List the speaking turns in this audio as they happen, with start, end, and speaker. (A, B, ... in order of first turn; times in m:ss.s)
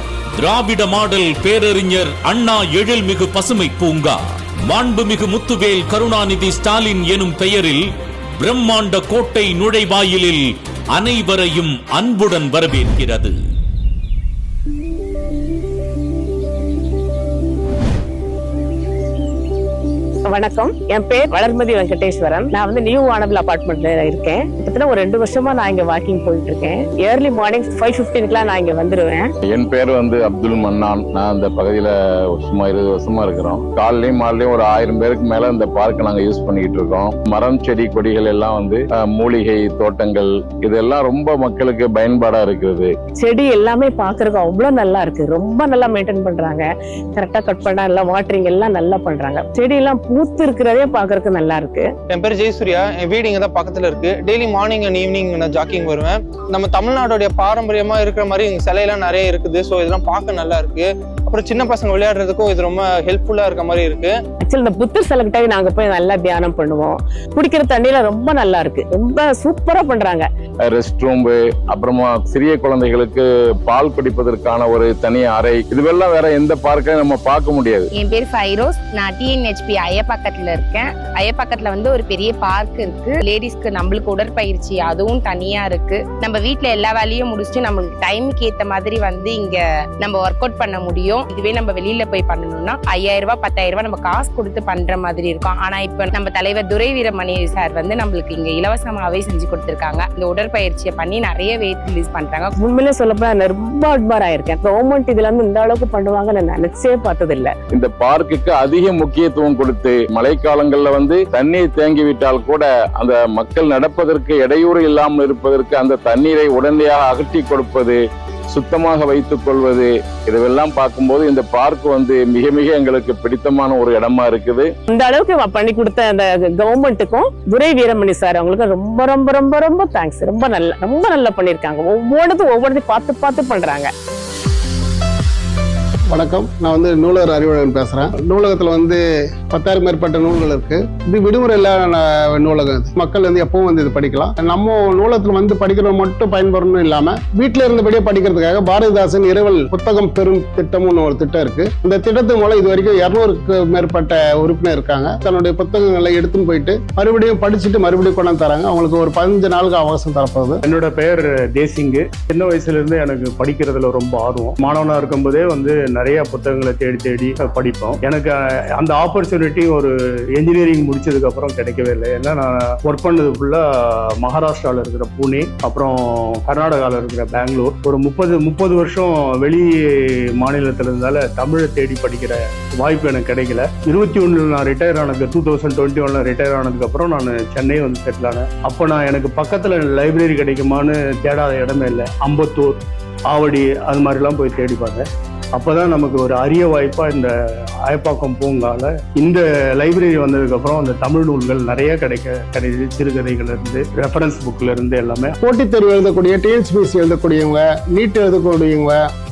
0:00.4-0:13.4 A
0:20.3-0:29.2 B
0:29.5-0:42.9 C
0:43.2-0:46.6 B
0:47.2-0:51.9 B
0:52.1-1:04.1 D
1:04.4-1:10.2 B
1:10.7-1:17.9 C
1:18.0-1:42.5 E
1:42.6-1:47.5 B
1:47.7-1:58.0 C
1:58.5-2:04.7 C
2:04.9-2:13.9 B
2:16.1-2:19.0 F
2:19.5-2:40.6 F
2:40.7-2:53.6 G
2:54.2-2:59.6 G
3:00.4-3:12.8 G
3:13.3-3:15.0 G
3:15.6-3:17.3 G
3:17.9-3:25.3 G
3:25.4-3:29.0 F